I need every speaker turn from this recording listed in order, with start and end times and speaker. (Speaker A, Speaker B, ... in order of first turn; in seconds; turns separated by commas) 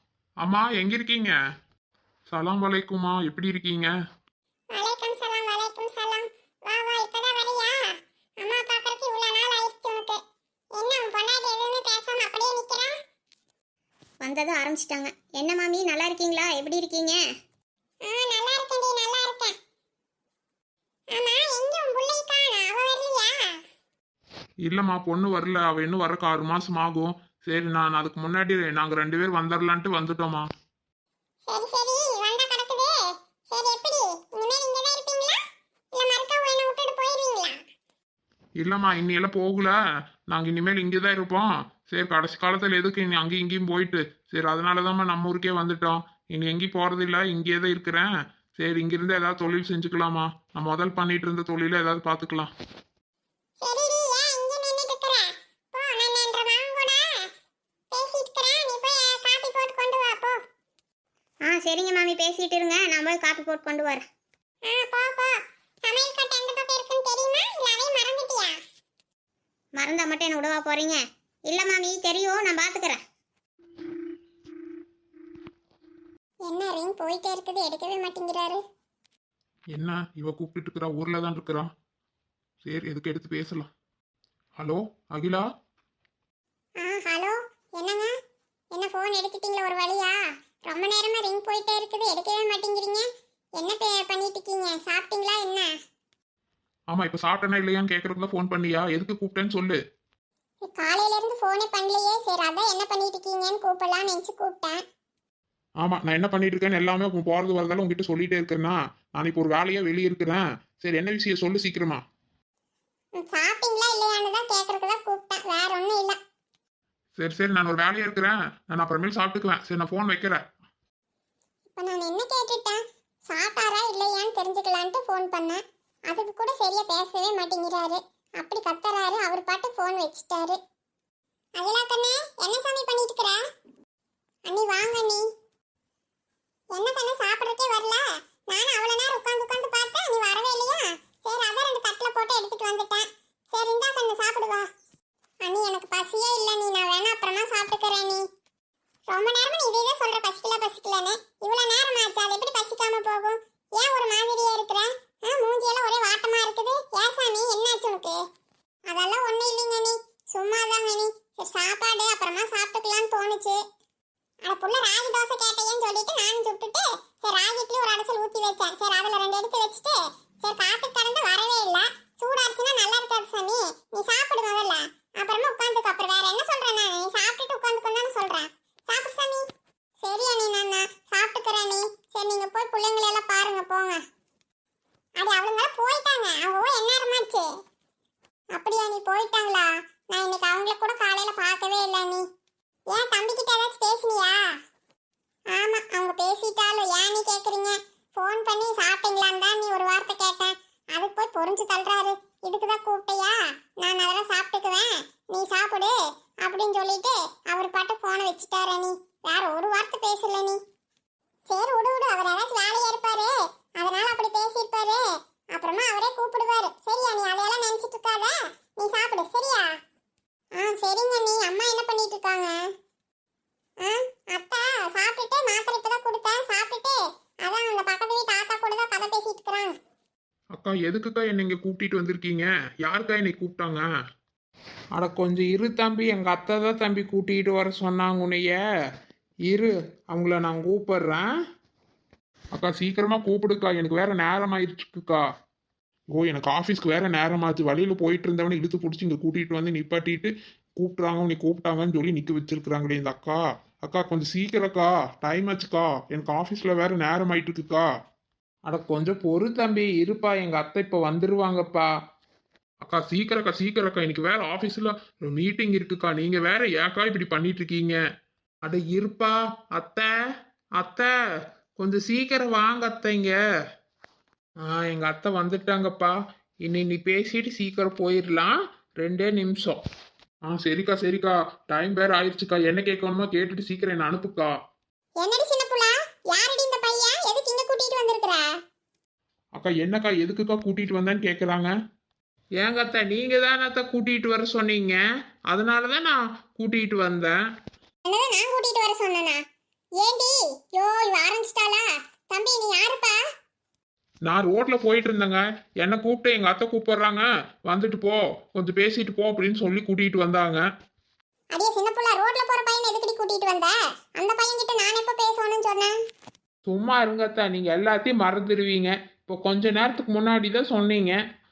Speaker A: 0.4-1.3, Speaker A: 2.3-3.9, Speaker B: 4.7-10.2, Speaker B: 10.7-12.9, Speaker C: 14.2-17.2, Speaker B: 18.0-19.5, Speaker B: 21.1-23.6, Speaker A: 24.6-30.5, Speaker B: 31.5-33.0, Speaker B: 33.5-35.4, Speaker B: 35.9-37.6, Speaker A: 38.6-39.8, Speaker A: 40.3-52.5, Speaker B: 53.6-57.3, Speaker B: 57.9-60.4, Speaker C: 61.4-64.1, Speaker B: 64.7-68.6, Speaker C: 69.7-73.0, Speaker B: 76.4-78.6, Speaker A: 79.7-81.7, Speaker A: 82.6-83.7, Speaker A: 84.6-85.4, Speaker B: 86.8-88.1, Speaker B: 88.7-95.7, Speaker A: 96.9-99.8, Speaker B: 100.6-104.8, Speaker A: 105.8-112.0, Speaker B: 113.2-116.2, Speaker A: 117.2-120.4, Speaker B: 121.7-130.6, Speaker B: 131.6-133.4, Speaker B: 134.4-135.3, Speaker B: 136.7-144.7, Speaker B: 145.4-148.3, Speaker B: 149.1-158.2, Speaker B: 158.8-163.6, Speaker B: 164.4-179.5, Speaker B: 180.0-184.0, Speaker B: 185.2-187.5, Speaker B: 188.5-192.2, Speaker B: 192.9-194.4, Speaker B: 195.5-210.6, Speaker B: 211.4-219.7, Speaker B: 220.5-222.6, Speaker B: 223.8-229.8, Speaker A: 230.5-233.8, Speaker A: 234.9-238.6, Speaker A: 239.5-241.3, Speaker A: 242.5-245.2, Speaker A: 246.1-257.9, Speaker A: 258.7-261.9, Speaker A: 262.8-268.0, Speaker A: 268.6-270.1, Speaker A: 270.8-271.1, Speaker A: 271.8-273.4, Speaker A: 274.6-279.8, Speaker A: 280.5-284.5, Speaker B: 285.2-288.5, Speaker A: 289.5-291.7, Speaker A: 292.6-295.0, Speaker A: 295.5-297.3, Speaker B: 298.1-299.4, Speaker B: 300.0-303.2, Speaker A: 304.2-310.6, Speaker B: 311.5-315.9, Speaker A: 316.6-321.2